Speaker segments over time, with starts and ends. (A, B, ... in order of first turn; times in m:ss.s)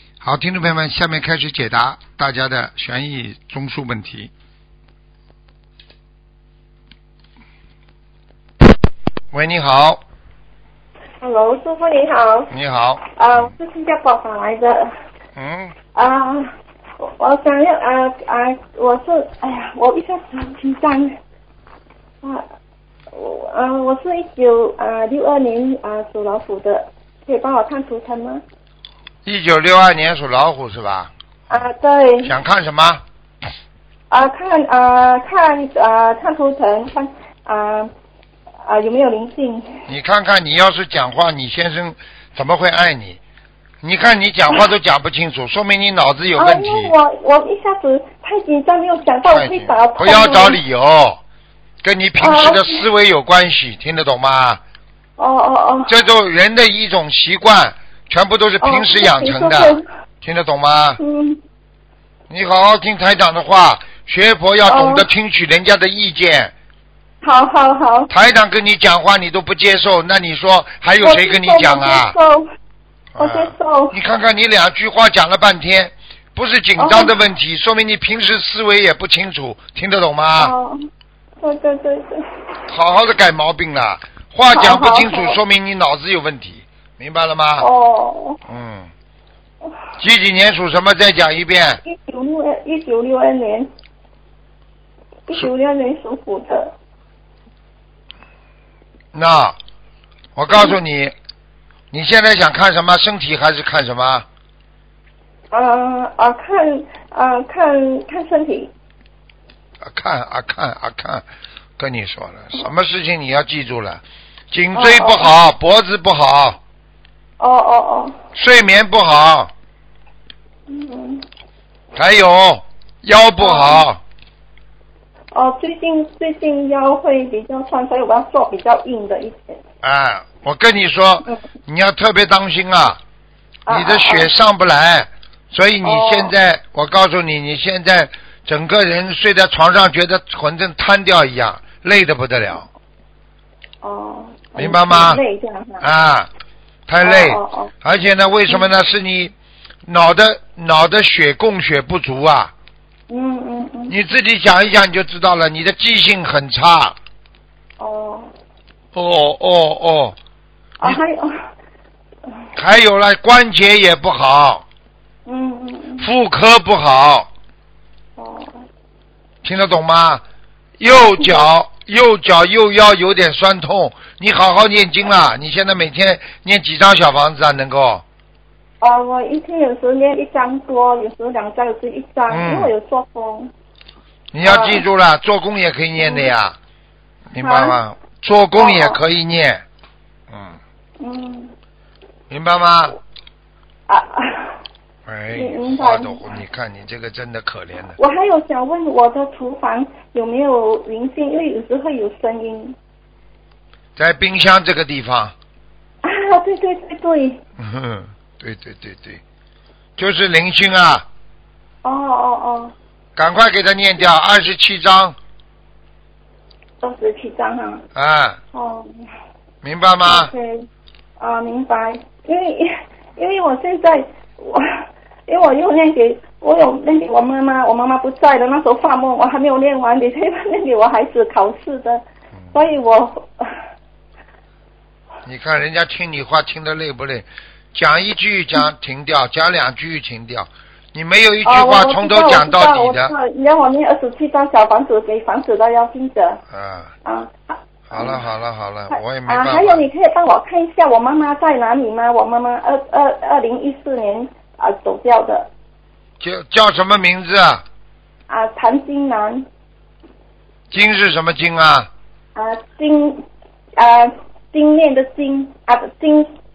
0:00.2-0:04.3 A
0:09.3-0:10.0 A
0:11.2-0:12.5 B
0:12.5-0:13.5 A
0:13.1-0:14.9 B
0:15.4-0:15.8 A
0:16.0-0:21.2 B
0:23.1-0:28.4 B
0:29.2-0:31.6 A
0:31.5-0:32.4 B
0:32.2-0:33.0 A
0:34.1-0:37.9 B
0:38.6-0:39.8 B
0:39.9-0:43.2 A
0:43.8-0:46.9 A
0:46.4-0:50.6 B
0:49.3-0:51.2 A
0:51.8-0:54.6 A
0:52.2-0:52.8 B
0:55.2-0:56.0 B
0:55.9-1:01.0 A
0:58.6-0:59.8 B
1:01.0-1:01.4 B
1:02.3-1:06.5 A
1:04.7-1:05.1 B
1:07.2-1:08.1 B
1:08.1-1:12.2 A
1:11.0-1:12.5 B
1:13.2-1:20.5 A
1:13.2-1:14.0 B
1:16.8-1:17.1 B
1:20.4-1:20.8 B
1:21.4-1:22.3 B
1:22.7-1:27.7 A
1:24.5-1:25.4 B
1:27.6-1:28.4 B
1:28.5-1:28.9 A
1:30.0-1:31.8 A
1:31.8-1:33.7 B
1:35.3-1:36.7 B
1:39.1-1:39.6 A
1:40.4-1:41.1 A
1:41.9-1:44.3 A
1:45.5-1:48.7 B
1:49.8-1:51.2 A
1:51.8-1:56.6 A
1:54.7-1:55.3 B
1:57.4-1:58.2 B
1:58.4-1:59.5 A
2:00.7-2:01.3 B
2:01.9-2:04.0 A
2:03.4-2:03.9 B
2:05.3-2:09.6 B
2:09.8-2:13.0 A
2:13.7-2:14.3 B
2:13.7-2:22.7 A
2:15.8-2:16.3 B
2:23.8-2:25.8 B
2:24.6-2:25.2 A
2:25.8-2:26.3 A
2:26.9-2:29.3 A
2:27.0-2:27.7 B
2:29.8-2:32.5 A
2:33.1-2:34.0 B
2:33.9-2:37.0 A
2:37.8-2:38.3 B
2:38.9-2:40.2 A
2:40.8-2:41.5 B
2:42.6-2:44.6 A
2:45.3-2:46.1 B
2:46.0-2:47.3 A
2:48.2-2:48.6 B
2:49.4-2:50.2 A
2:50.8-2:58.0 A
2:50.9-2:51.5 B
2:58.8-3:03.5 B
3:02.3-3:02.7 A
3:04.3-3:06.6 A
3:04.4-3:04.8 B
3:06.0-3:06.3 B
3:07.3-3:09.6 A
3:07.4-3:07.8 B
3:08.6-3:09.0 B
3:10.3-3:10.6 A
3:11.0-3:11.5 B
3:12.3-3:13.0 A
3:13.9-3:14.6 B
3:15.1-3:18.0 A
3:15.3-3:16.3 B
3:18.0-3:22.8 B
3:24.0-3:25.4 A
3:26.0-3:27.4 B
3:27.6-3:29.2 A
3:30.0-3:31.1 A
3:31.8-3:32.7 B
3:33.2-3:35.2 A
3:36.8-3:37.8 B
3:38.0-3:38.4 A
3:38.5-3:39.0 B
3:39.6-3:40.3 A
3:40.1-3:40.7 B
3:41.2-3:53.6 B
3:55.2-4:03.1 A
4:01.4-4:06.4 B
4:06.5-4:06.9 A
4:07.0-4:08.2 B
4:07.9-4:09.8 A
4:08.9-4:15.5 B
4:16.2-4:17.6 A
4:18.3-4:19.5 B
4:20.7-4:21.9 A
4:22.4-4:23.2 B
4:23.8-4:26.3 B